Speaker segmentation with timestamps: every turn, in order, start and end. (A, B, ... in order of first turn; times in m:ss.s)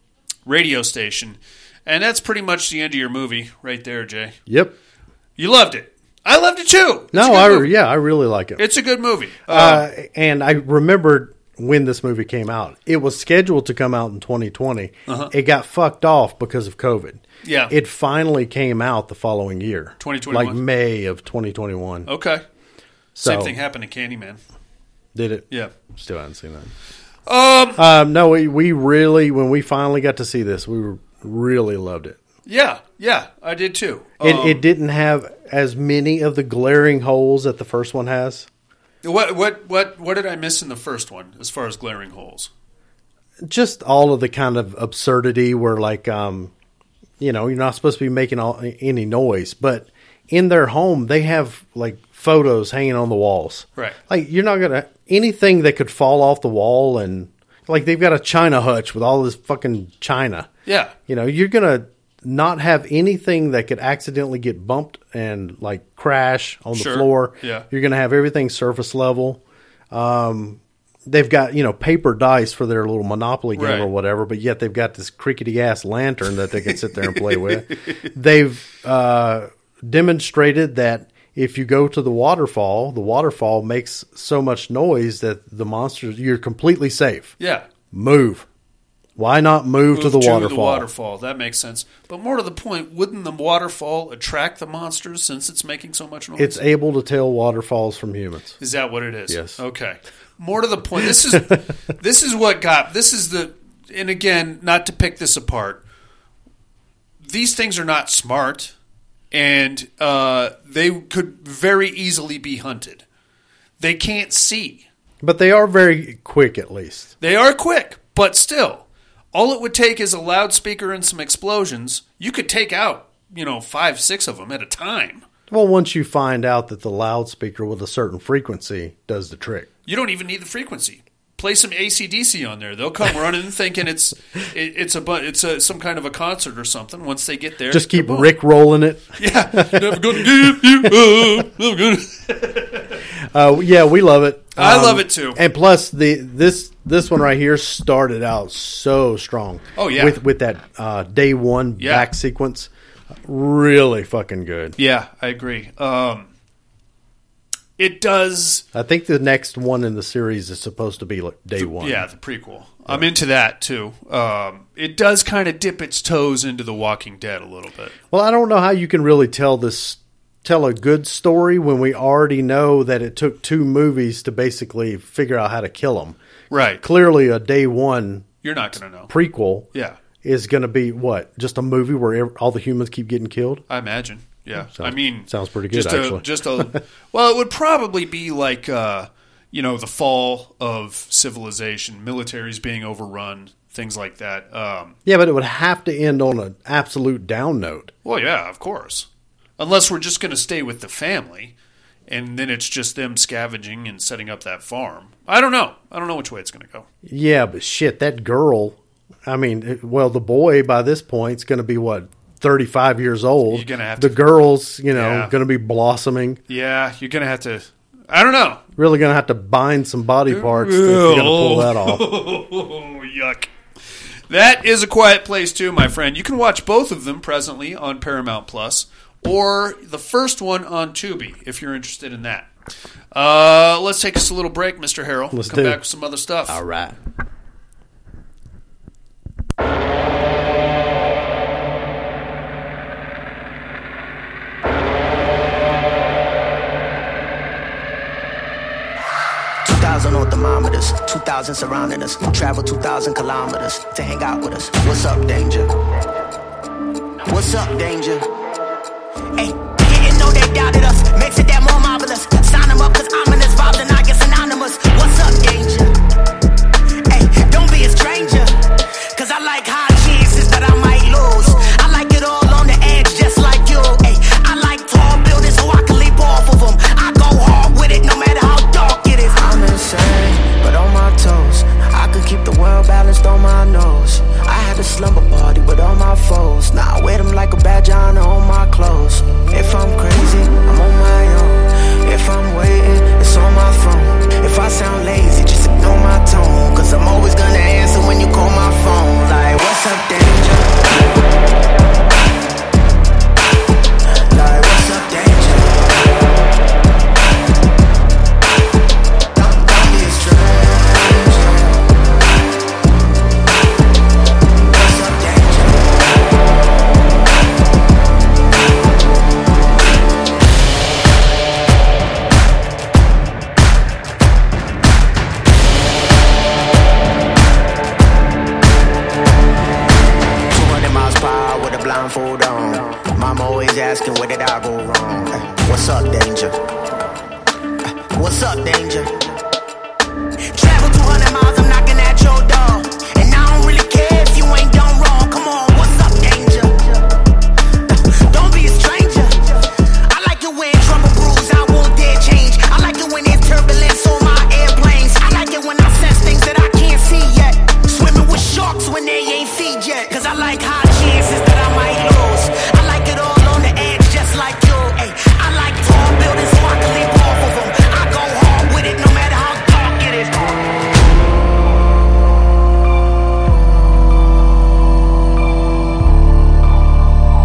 0:00.5-0:04.4 A
0:04.5-0:04.7 B
0:05.4-0:07.7 A
0:07.1-0:08.6 B
0:08.6-0:09.9 A
0:09.5-0:22.1 B
0:15.1-0:15.3 A
0:17.4-0:17.7 A
0:20.0-0:20.6 A
0:22.1-0:22.4 A
0:23.2-0:23.6 B
0:23.2-0:24.4 A
0:25.2-0:26.7 B
0:27.3-0:27.8 A
0:27.8-0:32.2 B
0:32.5-0:34.6 A
0:34.2-0:38.5 B
0:39.0-0:42.5 A
0:43.4-0:46.5 B
0:47.2-1:00.5 B
1:00.7-1:00.9 A
1:01.1-1:27.3 B
1:06.7-1:07.6 A
1:13.6-1:13.9 A
1:17.0-1:18.0 A
1:27.4-1:27.7 A
1:27.9-1:28.5 B
1:29.2-1:30.9 B
1:29.9-1:36.6 A
1:36.4-1:38.6 B
1:38.6-1:45.8 A
1:39.3-1:39.6 B
1:47.2-1:48.7 A
1:49.3-1:53.0 A
1:53.8-1:54.8 A
1:55.2-1:57.1 B
1:57.2-2:05.2 A
2:05.5-2:09.7 B
2:09.9-2:18.3 A
2:17.7-2:21.4 B
2:19.2-2:23.0 A
2:23.3-2:32.7 B
2:24.6-2:25.4 A
2:29.8-2:30.2 A
2:31.8-2:32.1 A
2:33.2-2:34.8 B
2:34.8-2:36.3 A
2:37.8-2:38.6 A
2:38.7-2:42.0 B
2:41.6-2:48.0 A
2:48.1-2:56.2 B
2:56.5-2:56.8 A
2:56.8-2:58.3 B
2:58.4-2:59.1 A
2:59.1-2:59.7 B
2:59.7-3:00.0 A
3:00.2-3:03.6 B
3:03.7-3:15.0 A
3:04.7-3:06.8 B
3:15.1-3:17.9 B
3:18.0-3:19.1 A
3:19.6-3:21.5 A
3:22.1-3:26.9 A
3:27.0-3:36.4 B
3:33.5-3:34.2 A
3:34.9-3:35.3 A
3:36.5-3:38.6 A
3:38.8-3:42.1 B
3:40.3-3:43.5 A
3:44.3-3:52.5 A
3:53.1-3:56.6 A
3:55.3-3:55.8 B
3:56.5-3:57.0 B
4:09.6-4:15.7 C
4:17.3-4:18.3 C
4:19.4-4:25.9 C
4:27.1-4:28.6 C
4:29.1-5:01.2 C
5:04.3-5:06.1 C
5:09.4-5:11.8 C
5:14.7-5:16.0 C
5:30.5-5:36.5 C
5:38.1-5:39.3 C
5:40.5-5:47.0 C
5:47.9-6:10.6 C